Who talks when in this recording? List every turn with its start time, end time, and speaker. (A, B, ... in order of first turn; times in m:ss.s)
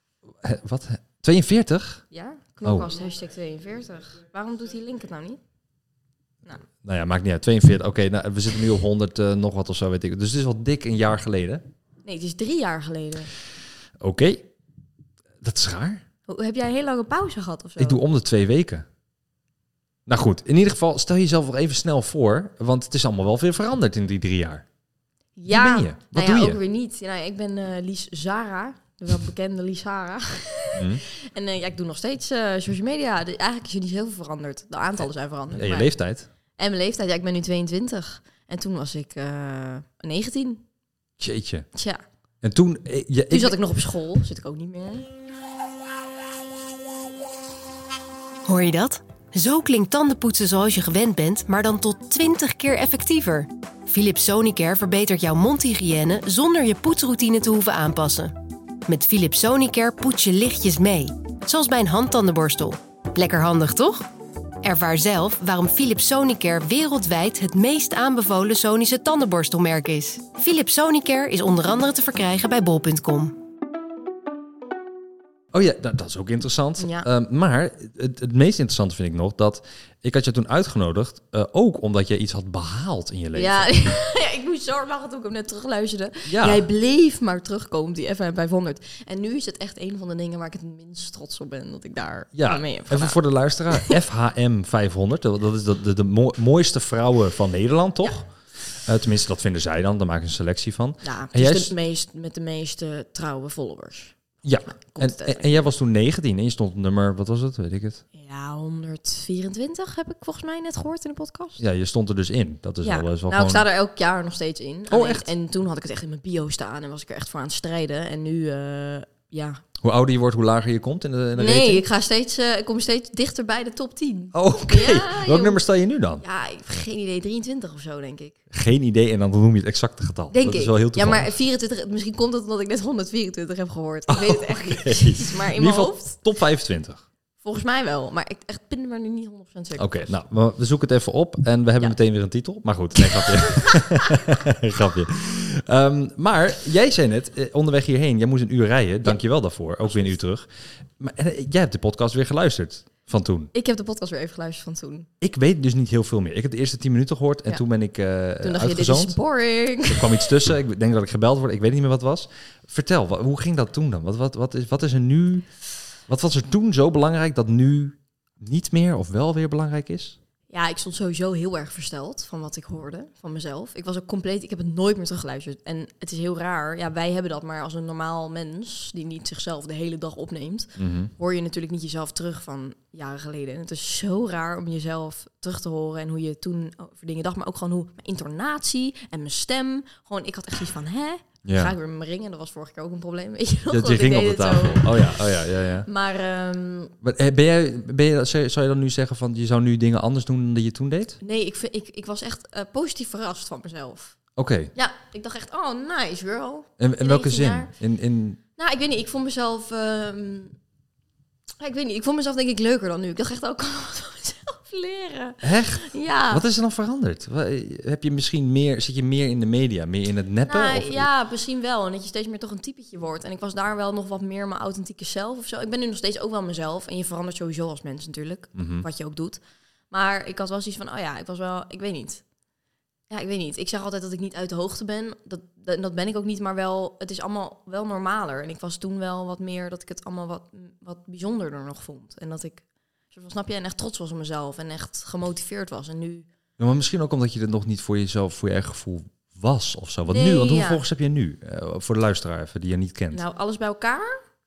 0:00.4-0:02.0 A
0:02.1-0:05.4 B
0:02.6-0:02.9 A
0:06.8-0:11.6 A
0:12.0-0:13.3 B
0:14.0-0:14.5 A
0:15.4-0:16.0 A
0:16.3-0:18.0 B
0:17.8-0:18.9 A
0:20.1-0:24.6 A
0:25.4-0:35.9 B
0:25.5-0:26.6 A
0:30.7-0:31.0 A
0:35.6-0:36.3 A
0:36.6-0:40.6 B
0:41.2-0:41.7 A
0:41.7-0:42.0 B
0:42.4-0:43.6 A
0:43.3-0:45.1 B
0:48.4-0:58.3 C
0:58.9-1:04.1 C
1:04.6-1:13.3 C
1:15.5-1:23.8 A
1:16.8-1:17.1 B
1:23.3-1:33.2 B
1:26.2-1:26.7 A
1:32.3-1:41.7 A
1:41.0-1:44.2 B
1:44.4-1:48.0 A
1:44.7-1:45.7 B
1:48.1-1:51.6 B
1:51.6-1:53.7 A
1:52.8-1:59.6 B
1:54.9-1:55.3 A
1:59.8-2:01.8 A
2:01.3-2:05.6 B
2:04.3-2:06.2 A
2:06.2-2:08.4 B
2:08.5-2:11.3 A
2:10.3-2:16.2 B
2:14.1-2:17.0 A
2:17.4-2:20.1 B
2:19.8-2:30.5 A
2:23.0-2:24.0 B
2:31.0-2:33.5 A
2:33.5-2:35.1 B
2:35.2-2:39.2 A
2:38.4-2:40.3 B
2:39.9-2:45.5 A
2:46.1-2:50.2 A
2:50.5-3:17.0 B
3:00.8-3:01.1 A
3:11.4-3:11.7 A
3:13.7-3:15.9 A
3:17.0-3:21.2 A
3:21.2-3:24.2 B
3:24.4-3:24.7 A
3:24.8-3:27.7 B
3:26.8-3:28.4 A
3:28.6-3:30.6 B
3:31.6-3:36.4 B
3:35.4-3:41.1 A
3:40.5-3:52.2 B
3:48.5-3:48.8 A
3:53.1-4:06.3 B
4:06.6-4:13.2 A
4:10.1-4:10.8 B
4:13.1-4:14.2 B